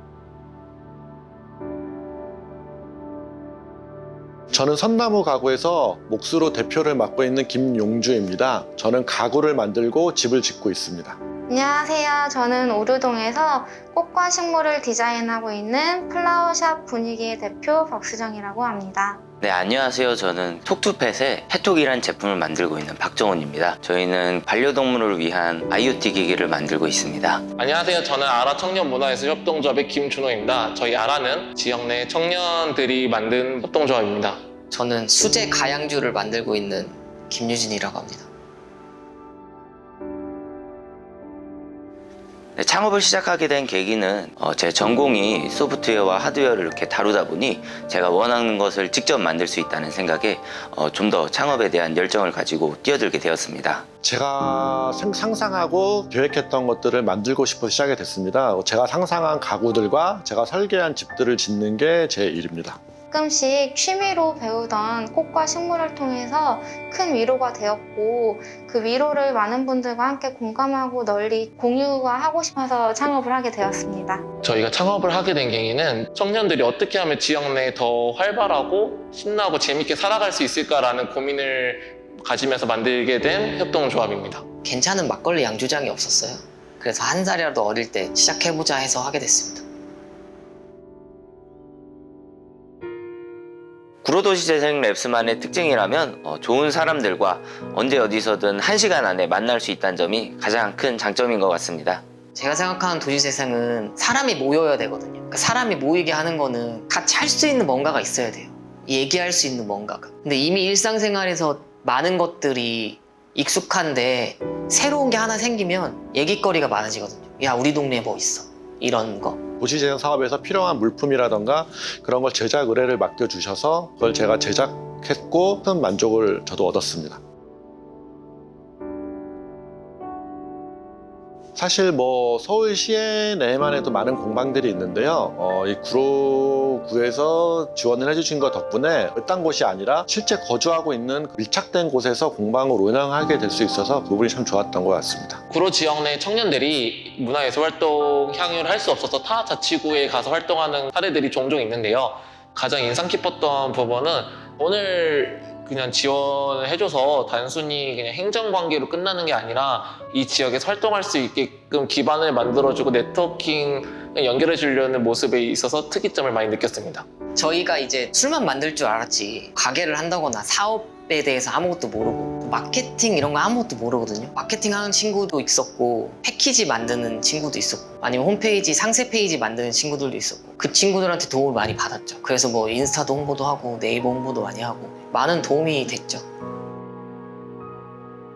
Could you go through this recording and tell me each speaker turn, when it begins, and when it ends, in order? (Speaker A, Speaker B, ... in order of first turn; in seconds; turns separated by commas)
Speaker A: 4.5-11.2, Speaker B: 11.5-19.2, Speaker C: 19.4-27.4, Speaker D: 27.6-34.4, Speaker E: 34.7-38.3, Speaker C: 42.6-53.9, Speaker A: 54.0-62.8, Speaker B: 63.1-74.2, Speaker D: 74.4-84.4, Speaker E: 84.6-89.6, Speaker C: 94.0-102.0, Speaker E: 102.3-119.4, Speaker A: 119.6-127.2, Speaker A: 131.6-145.4, Speaker D: 145.5-167.1, Speaker E: 167.4-186.2